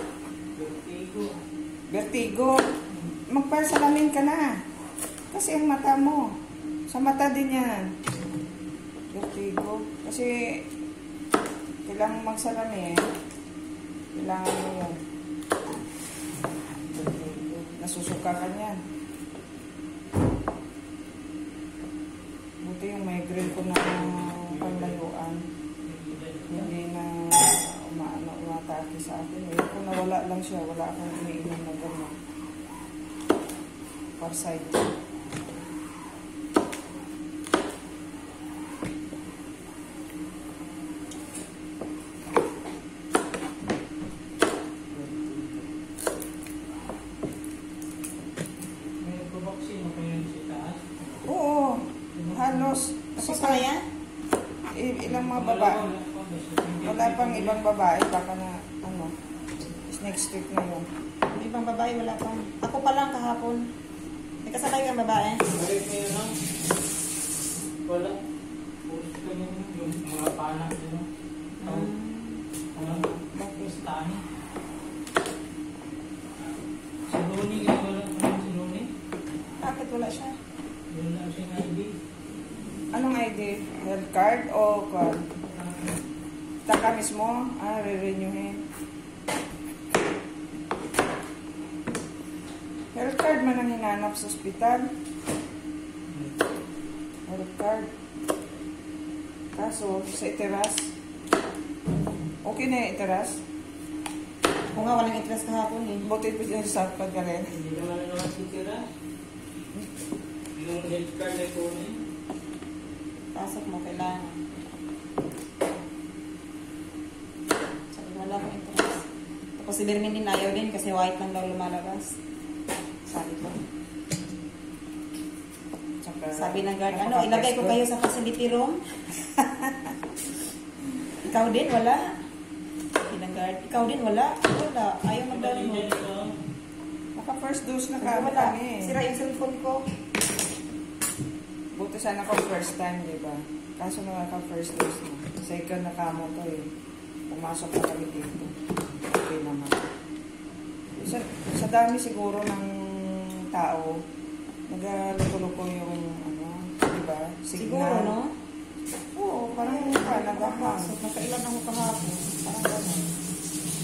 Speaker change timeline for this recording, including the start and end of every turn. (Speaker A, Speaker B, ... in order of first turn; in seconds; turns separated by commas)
Speaker A: 0.6-1.3, Speaker B: 1.9-2.6, Speaker B: 3.3-4.6, Speaker B: 5.3-6.4, Speaker B: 6.9-7.9, Speaker B: 9.1-10.6, Speaker B: 11.8-13.1, Speaker B: 14.1-15.0, Speaker B: 16.8-18.8, Speaker B: 22.6-25.4, Speaker A: 23.6-25.0, Speaker A: 25.8-26.7, Speaker B: 26.5-32.1, Speaker B: 34.2-34.9, Speaker A: 49.0-50.8, Speaker B: 51.2-53.7, Speaker A: 52.1-52.7, Speaker C: 53.2-53.8, Speaker B: 54.7-55.8, Speaker A: 55.0-57.6, Speaker B: 56.8-59.1, Speaker B: 59.9-60.9, Speaker C: 61.3-63.6, Speaker C: 64.4-65.5, Speaker A: 65.5-66.3, Speaker A: 67.8-68.2, Speaker A: 68.9-71.0, Speaker C: 71.6-72.4, Speaker A: 71.6-71.9, Speaker A: 72.7-74.2, Speaker B: 72.8-73.8, Speaker A: 77.1-78.9, Speaker C: 79.6-80.3, Speaker A: 80.9-81.9, Speaker B: 82.9-85.2, Speaker B: 86.7-88.6, Speaker B: 92.9-94.9, Speaker B: 97.3-97.9, Speaker B: 99.5-100.9, Speaker B: 102.4-103.4, Speaker C: 104.7-106.1, Speaker B: 106.0-107.5, Speaker A: 107.5-108.8, Speaker A: 110.5-112.0, Speaker C: 113.3-114.4, Speaker C: 117.9-119.0, Speaker C: 119.6-122.1, Speaker C: 123.1-123.6, Speaker B: 126.0-127.8, Speaker C: 126.3-128.8, Speaker C: 131.2-132.0, Speaker C: 133.0-135.9, Speaker A: 135.3-136.4, Speaker B: 137.1-138.9, Speaker C: 138.0-139.8, Speaker B: 141.7-146.7, Speaker B: 147.3-148.5, Speaker B: 149.1-149.8, Speaker B: 151.0-154.0, Speaker B: 154.7-158.2, Speaker C: 157.6-158.3, Speaker C: 159.2-163.1, Speaker B: 159.2-160.9